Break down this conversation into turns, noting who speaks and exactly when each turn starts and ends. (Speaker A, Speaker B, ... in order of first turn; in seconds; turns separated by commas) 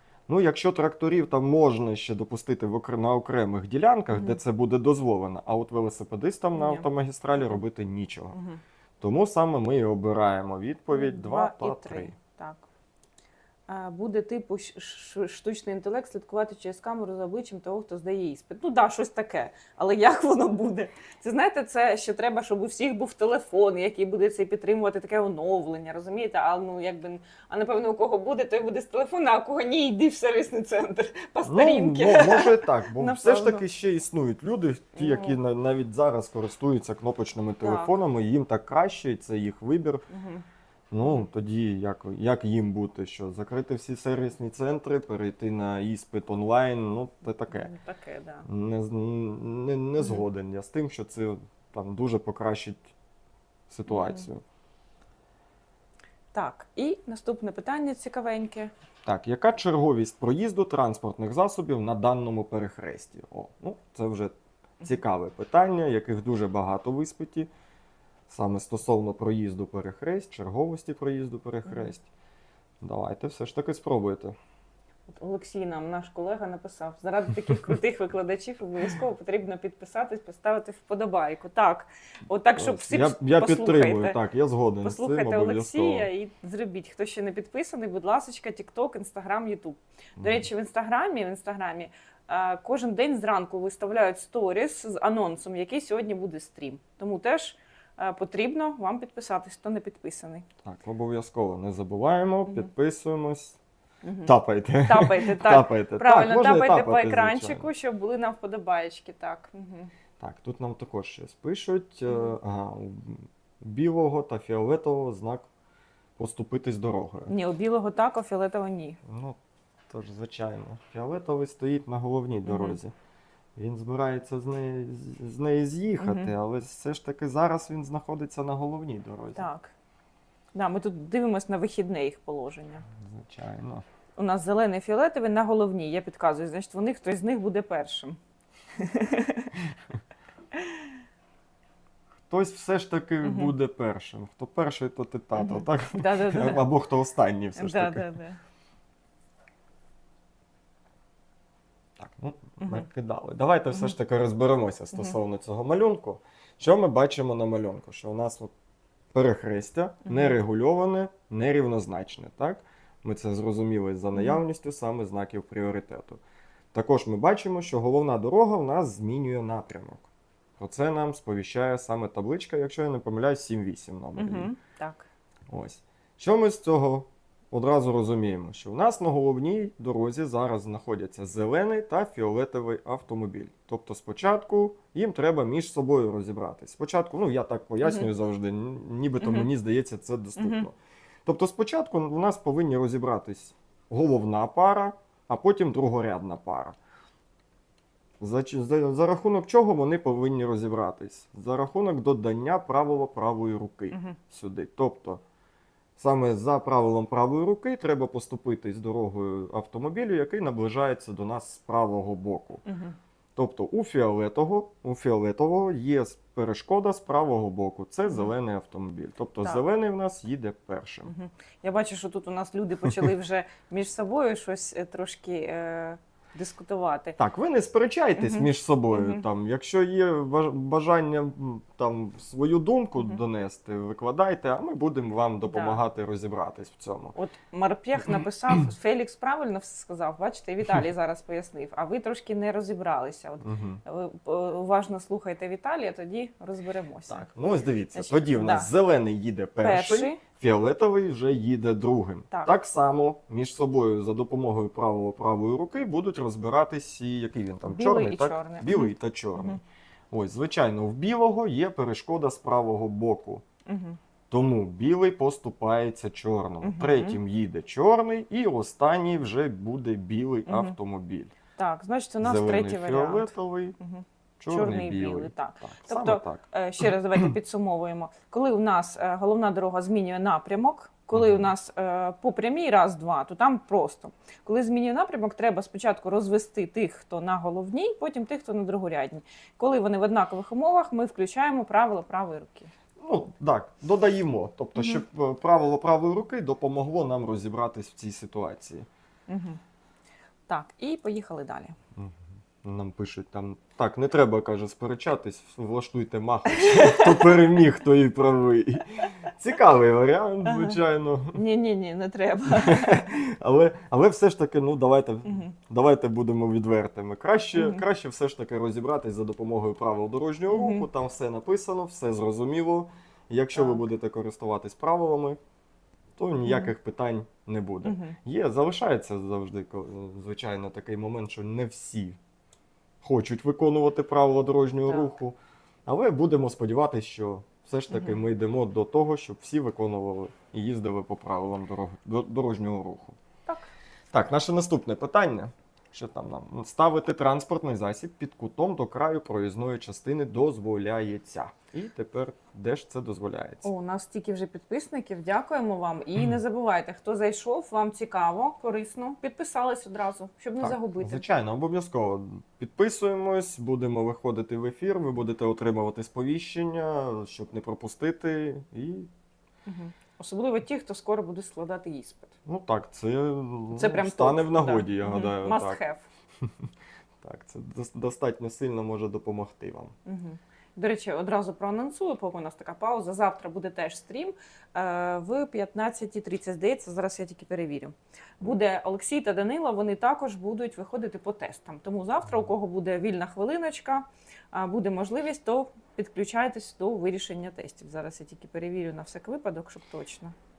Speaker A: 0.3-8.4, Speaker B: 4.1-4.4, Speaker B: 6.5-7.6, Speaker B: 8.3-8.6, Speaker A: 9.0-12.2, Speaker B: 10.9-12.6, Speaker B: 13.7-33.6, Speaker A: 31.4-40.0, Speaker B: 35.0-35.4, Speaker B: 37.6-38.0, Speaker B: 40.1-40.4, Speaker A: 40.9-47.7, Speaker B: 47.5-48.5, Speaker A: 48.5-52.8, Speaker A: 53.7-54.4, Speaker B: 53.9-54.2, Speaker B: 56.3-58.7, Speaker A: 59.0-67.5, Speaker A: 68.3-72.1, Speaker B: 71.7-71.9, Speaker A: 72.8-74.3, Speaker B: 75.2-84.2, Speaker A: 82.6-86.1, Speaker B: 84.8-100.4, Speaker A: 90.2-90.5, Speaker A: 100.6-103.6, Speaker B: 104.0-104.3, Speaker A: 104.2-107.7, Speaker B: 104.8-109.9, Speaker A: 110.2-115.5, Speaker B: 112.1-112.4, Speaker A: 116.2-117.3, Speaker B: 117.3-119.0, Speaker A: 119.0-119.4, Speaker A: 119.9-122.9, Speaker B: 122.5-122.8, Speaker A: 123.5-129.5, Speaker B: 126.0-126.3, Speaker B: 129.4-129.7, Speaker B: 130.5-132.9, Speaker A: 132.9-133.8, Speaker B: 134.2-138.2, Speaker B: 138.8-139.5, Speaker B: 140.6-140.9, Speaker A: 142.3-148.1, Speaker B: 143.2-143.5, Speaker B: 145.4-146.7, Speaker B: 147.6-148.4, Speaker A: 152.0-158.5, Speaker B: 152.6-152.9, Speaker A: 159.1-166.2, Speaker B: 160.0-160.4, Speaker B: 164.1-164.4, Speaker A: 166.7-170.1, Speaker A: 170.6-174.5, Speaker B: 174.2-175.1, Speaker A: 175.5-196.8, Speaker B: 187.8-188.1, Speaker B: 189.2-189.5, Speaker B: 190.4-190.7, Speaker A: 198.2-205.2, Speaker B: 203.9-204.2, Speaker A: 206.0-212.6, Speaker B: 212.7-213.0, Speaker A: 213.4-221.1, Speaker B: 218.1-218.3, Speaker B: 221.1-227.2, Speaker A: 227.2-237.1, Speaker B: 228.2-229.2, Speaker B: 235.5-235.8, Speaker B: 237.1-247.3, Speaker A: 243.4-243.8, Speaker A: 247.1-263.4, Speaker B: 247.9-248.7, Speaker B: 249.6-250.2, Speaker B: 257.6-259.6, Speaker B: 263.6-264.0, Speaker A: 264.3-271.3, Speaker B: 266.6-267.2, Speaker B: 270.5-270.8, Speaker B: 271.6-292.7, Speaker A: 272.2-273.8, Speaker A: 274.4-277.3, Speaker A: 281.1-281.5, Speaker A: 293.0-298.9, Speaker B: 294.8-295.0, Speaker B: 299.3-299.6, Speaker B: 300.5-301.8, Speaker A: 301.9-311.4, Speaker B: 306.5-307.3, Speaker B: 310.5-310.8, Speaker B: 311.3-313.1, Speaker A: 312.5-325.4, Speaker B: 315.2-315.5, Speaker B: 317.5-317.8, Speaker B: 320.5-320.9, Speaker B: 323.5-323.8, Speaker A: 326.2-332.2, Speaker B: 326.4-326.7, Speaker B: 327.8-328.2, Speaker A: 333.0-343.2, Speaker B: 334.9-335.1, Speaker B: 337.9-338.2, Speaker A: 344.1-353.7, Speaker B: 353.6-361.2, Speaker A: 360.6-369.1, Speaker B: 369.7-372.4, Speaker A: 372.5-375.8, Speaker B: 373.7-376.0, Speaker A: 376.4-376.7, Speaker A: 377.2-379.9, Speaker B: 380.1-400.3